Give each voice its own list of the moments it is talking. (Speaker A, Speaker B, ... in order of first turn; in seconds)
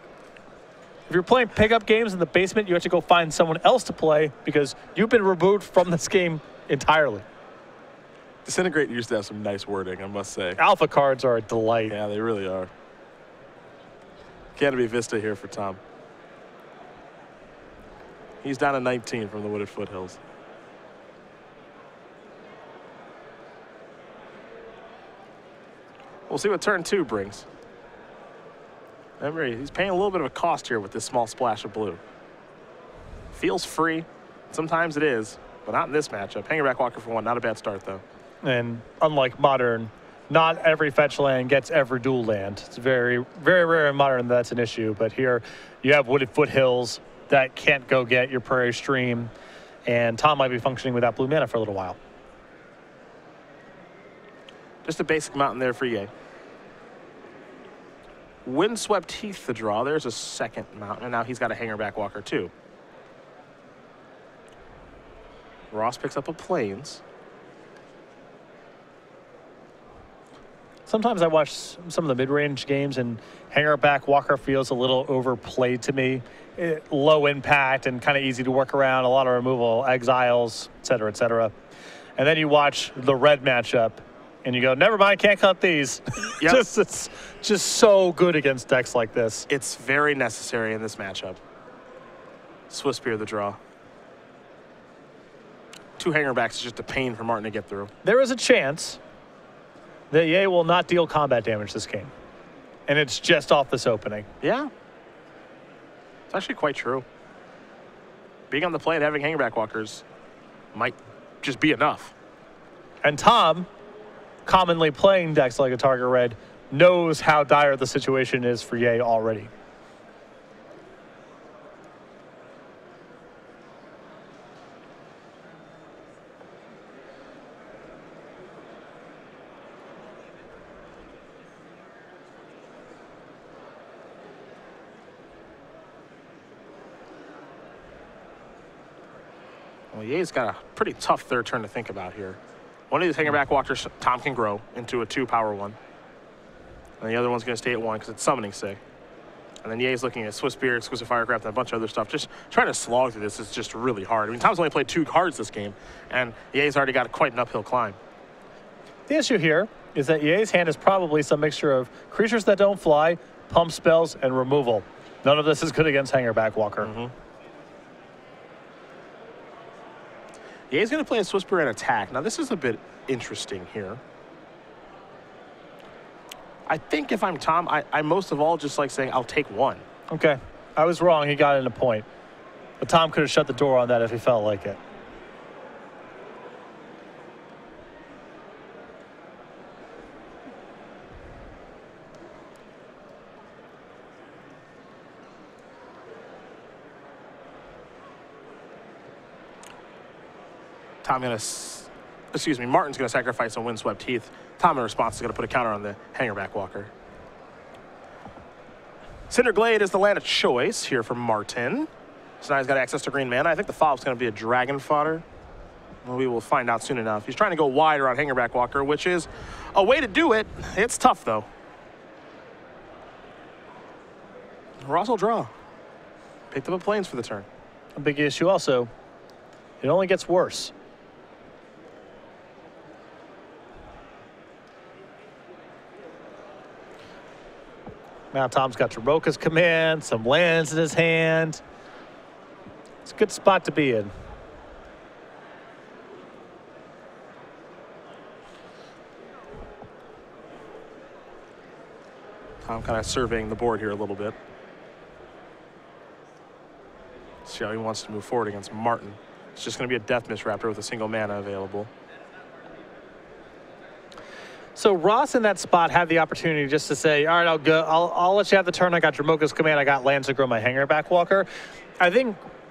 Speaker A: 1.1-7.2, 10.6-11.9, 38.4-49.3, 49.9-52.0, 70.9-81.5, 82.2-89.5, 98.0-99.0, 100.1-102.1, 102.9-104.3, 113.0-113.7, 114.5-119.5, 159.1-166.9, 180.1-182.1, 182.8-184.8, 228.0-228.9, 229.8-230.7, 238.3-241.6, 243.1-244.1, 264.8-271.5, 272.0-272.4
Speaker B: 8.5-10.6, 11.9-12.7, 14.6-15.8, 18.4-20.2, 26.3-27.4, 29.2-32.0, 33.3-38.0, 54.9-56.1, 58.5-62.5, 65.7-67.0, 86.4-86.7, 89.5-91.4, 92.7-93.6, 96.0-97.9, 104.4-104.7, 106.3-107.0, 108.5-110.0, 110.7-112.1, 139.9-142.4, 142.9-145.8, 147.0-148.8, 149.6-158.0, 166.8-167.1, 170.7-174.0, 176.7-179.8, 201.0-206.9, 209.3-211.9, 212.4-215.2, 216.0-221.5, 224.8-225.5, 226.5-227.5, 252.7-254.3, 257.5-261.9